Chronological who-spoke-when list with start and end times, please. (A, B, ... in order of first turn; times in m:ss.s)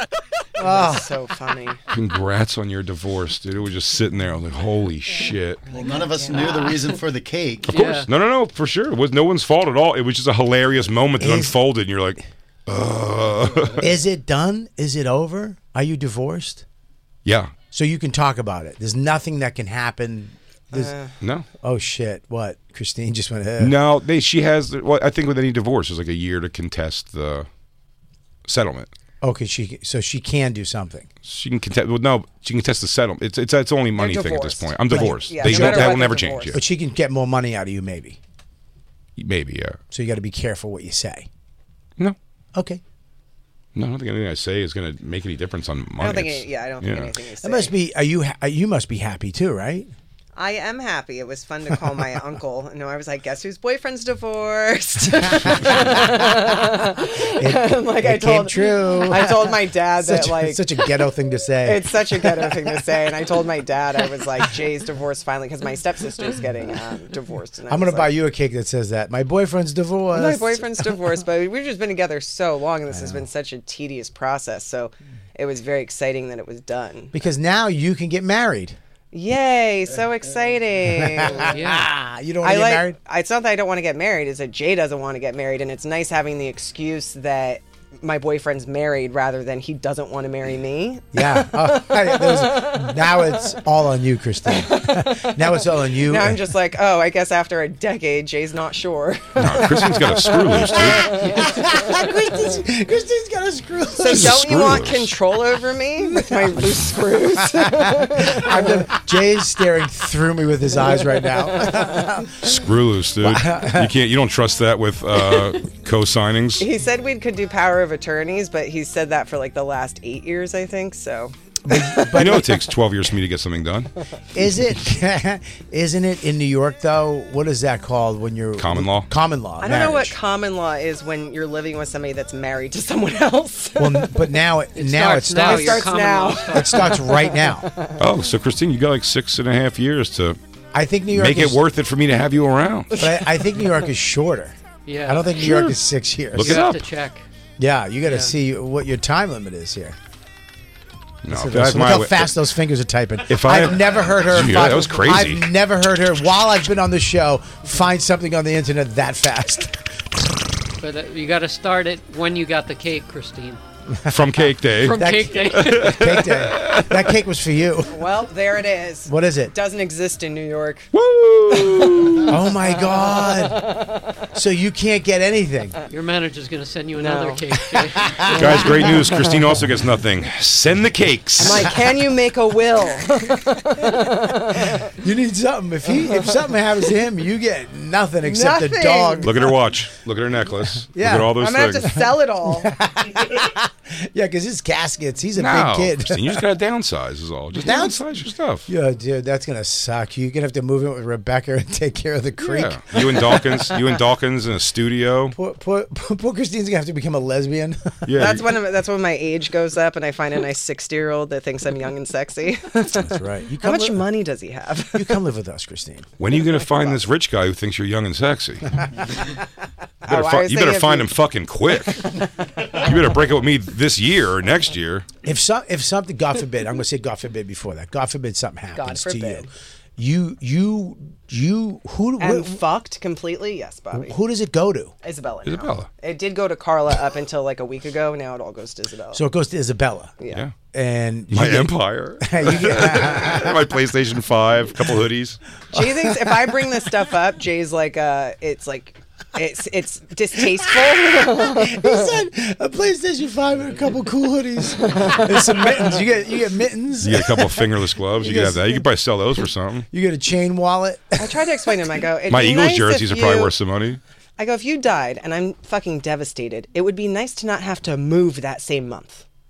0:00.6-0:01.1 A
0:00.6-0:01.8 B
0:01.9-0:05.6 C
0:05.7-0:07.7 D
0:05.7-0:07.0 B
0:07.6-0:08.1 E
0:07.6-0:13.9 C
0:11.2-0:11.5 A
0:13.8-0:16.6 A
0:17.2-0:17.5 C
0:17.7-0:20.9 A
0:20.7-0:21.1 B
0:21.2-0:21.4 C
0:21.6-0:23.7 A
0:23.6-0:27.5 C
0:28.4-0:28.9 C
0:29.2-0:31.1 A
0:31.2-0:36.6 C
0:34.0-0:36.6 B
0:34.9-0:38.2 A
0:39.2-0:39.8 C
0:39.9-0:41.3 A
0:42.5-0:42.8 A
0:43.7-0:47.1 C
0:46.0-0:47.7 B
0:47.4-0:49.9 A
0:50.3-1:00.9 B
0:55.2-1:02.8 A
1:01.6-1:08.1 B
1:07.7-1:11.2 A
1:10.1-1:17.1 B
1:12.9-1:13.3 A
1:17.1-1:18.8 A
1:19.1-1:21.6 B
1:20.8-1:23.0 A
1:21.5-1:21.9 E
1:22.4-1:33.4 B
1:31.1-1:36.5 A
1:34.4-1:42.2 B
1:39.4-1:41.1 C
1:41.2-1:41.5 E
1:41.2-1:44.5 A
1:44.0-1:48.9 B
1:44.0-1:45.1 C
1:46.2-1:52.4 A
1:51.1-1:52.2 B
1:52.4-1:56.7 C
1:53.2-1:53.9 A
1:56.6-2:02.5 B
2:01.7-2:02.5 A
2:02.1-2:03.9 C
2:04.3-2:10.2 A
2:08.6-2:09.1 C
2:09.6-2:14.1 B
2:13.8-2:15.9 A
2:14.7-2:17.0 E
2:15.4-2:18.0 B
2:16.5-2:17.7 A
2:18.0-2:20.4 C
2:20.7-2:21.6 A
2:21.1-2:22.9 C
2:22.9-2:24.5 A
2:23.0-2:23.2 B
2:24.8-2:25.8 E
2:25.0-2:26.6 A
2:26.3-2:26.8 C
2:26.3-2:27.2 E
2:27.6-2:30.0 A
2:28.0-2:28.3 E
2:31.2-2:32.3 C
2:31.3-2:40.4 A
2:33.3-2:35.4 C
2:40.8-2:43.6 E
2:43.9-2:48.0 A
2:44.1-2:46.9 C
2:44.8-2:46.4 E
2:47.9-2:50.9 B
2:49.0-2:49.5 A
2:50.9-2:52.4 C
2:52.3-2:53.7 A
2:52.9-2:54.0 B
2:54.3-2:55.8 A
2:55.9-2:58.7 E
2:57.0-2:57.4 B
2:58.0-2:58.4 A
2:58.3-2:59.4 B
2:58.3-3:01.7 C
3:01.4-3:04.9 B
3:04.6-3:09.3 A
3:06.0-3:06.4 B
3:08.2-3:09.5 B
3:09.2-3:11.9 C
3:10.8-3:16.4 A
3:11.3-3:12.7 B
3:15.4-3:18.7 C
3:17.5-3:18.0 A
3:18.7-3:23.7 A
3:22.4-3:25.4 C
3:25.3-3:28.0 A
3:28.0-3:28.5 C
3:28.2-3:35.2 B
3:32.9-3:34.1 A
3:34.9-3:36.1 A
3:36.2-3:38.8 C
3:36.5-3:37.0 B
3:40.0-3:41.1 B
3:40.1-3:45.0 C
3:45.2-3:52.6 A
3:48.7-3:49.5 B
3:52.2-3:54.2 B
3:53.9-3:54.9 A
3:55.0-3:59.2 B
3:55.4-3:55.9 C
3:59.1-4:00.1 A
4:00.3-4:00.5 C
4:00.7-4:03.6 A
4:01.3-4:05.4 C
4:05.7-4:12.1 B
4:05.7-4:06.7 A
4:10.6-4:18.9 A
4:14.8-4:15.7 B
4:17.0-4:19.9 C
4:19.9-4:21.4 A
4:21.2-4:23.5 B
4:22.3-4:24.0 C
4:24.4-4:29.2 B